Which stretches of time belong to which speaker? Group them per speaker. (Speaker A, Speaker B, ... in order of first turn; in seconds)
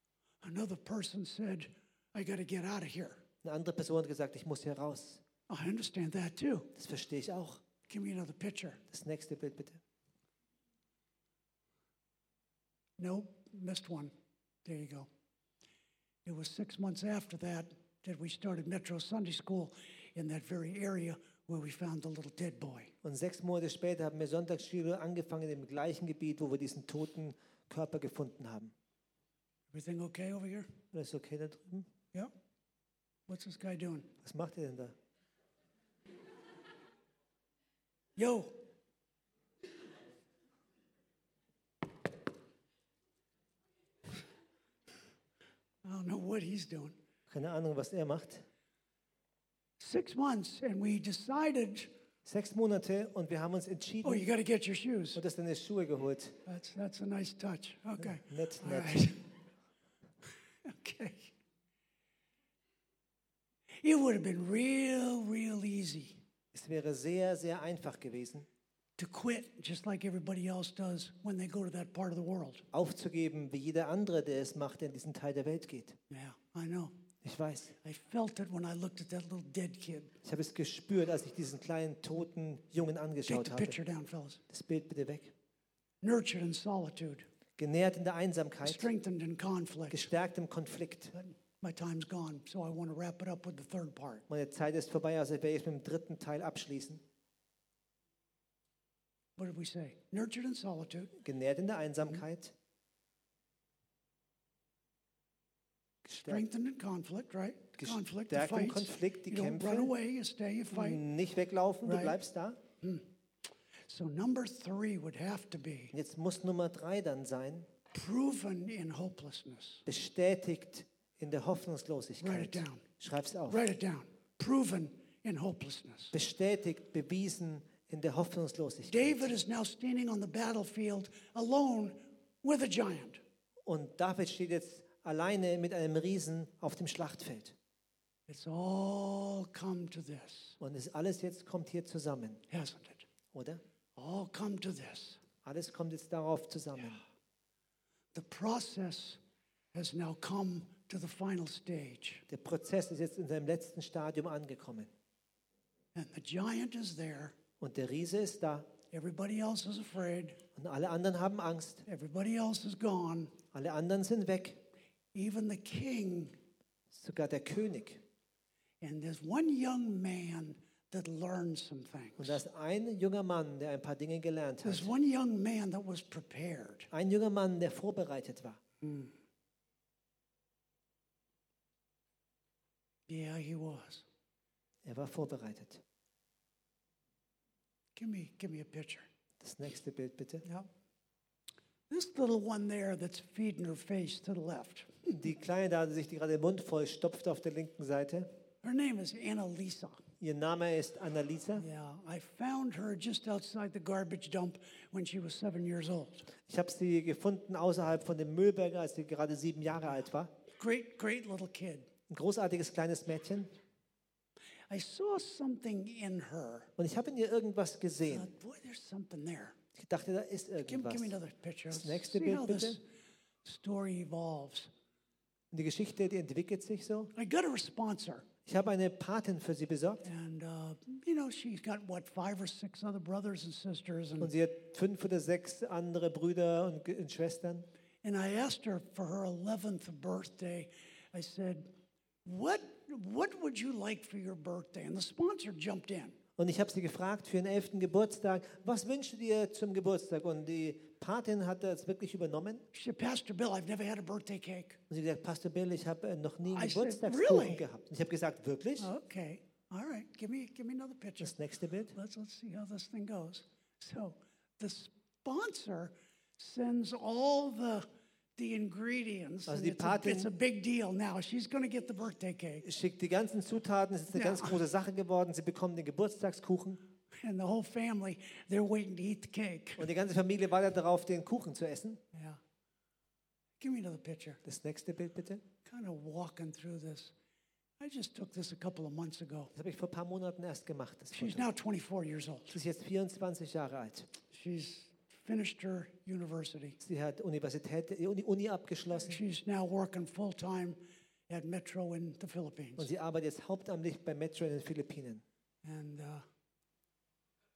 Speaker A: 0.4-3.2, 5.5-6.7, 7.9-8.8, 13.0-14.1, 14.6-15.1, 16.2-22.9, 29.7-30.7, 33.3-34.1, 38.2-38.5, 45.8-47.0, 49.8-51.9, 54.0-55.2, 56.5-59.2, 60.6-61.3, 63.8-66.2, 69.0-72.7, 76.1-76.9, 77.8-80.1, 83.3-84.4, 86.0-87.2, 88.6-90.1, 91.1-94.2, 99.4-101.1, 106.2-111.0, 111.8-112.2, 112.8-113.1, 113.9-115.9, 117.9-119.8, 122.2-122.8, 123.5-126.1, 128.9-133.2, 138.3-140.6, 142.5-143.1, 143.9-145.2, 148.1-149.2, 149.7-152.3, 155.9-157.3, 158.9-160.4, 161.8-163.3, 165.1-166.3, 168.8-172.4, 174.6-176.9, 178.8-179.1, 183.1-184.1, 187.9-189.1, 191.9-195.2, 198.6-200.0, 201.6-206.3, 210.6-211.9, 214.7-216.7, 218.1-219.6, 220.7-222.8, 223.4-224.7, 227.1-228.3, 230.0-234.3, 238.0-241.7, 242.2-246.2, 252.7-254.8, 256.5-257.6, 258.8-261.4, 261.9-267.9, 268.4-272.6, 274.1-274.6, 277.1-279.9, 282.1-282.4, 283.6-284.4, 285.6-287.1, 287.8-289.5, 291.1-292.6, 294.3-296.8, 299.1-300.8, 301.3-302.9, 305.6-306.2
Speaker B: 3.4-5.2, 6.7-7.6, 8.9-9.8, 23.0-28.7, 30.9-31.9, 34.2-34.9, 47.3-48.4, 52.2-54.3, 55.1-56.4, 58.0-59.1, 66.5-68.5, 72.7-76.0, 77.2-77.8, 80.2-83.8, 84.5-85.3, 87.6-88.9, 89.9-91.1, 94.3-97.0, 101.2-102.5, 106.1-106.4, 107.8-109.9, 110.7-112.6, 115.9-117.7, 119.8-123.6, 126.1-129.3, 133.6-137.6, 140.6-142.4, 143.3-143.6, 145.4-147.0, 152.3-154.9, 157.6-158.7, 160.6-161.8, 163.5-164.6, 166.9-168.0, 172.2-174.9, 176.9-178.6, 184.8-185.8, 189.4-190.4, 195.1-198.3, 200.2-201.6, 206.4-210.3, 212.1-213.5, 216.8-218.3, 219.7-221.2, 221.7-222.8, 225.5-227.1, 228.4-230.1, 234.2-237.7, 246.4-252.6, 254.9-258.9, 261.2-261.9, 269.5-270.3, 272.6-276.8, 279.8-282.0, 284.4-285.4, 289.6-291.5, 292.5-294.1, 296.8-299.2, 302.8-305.2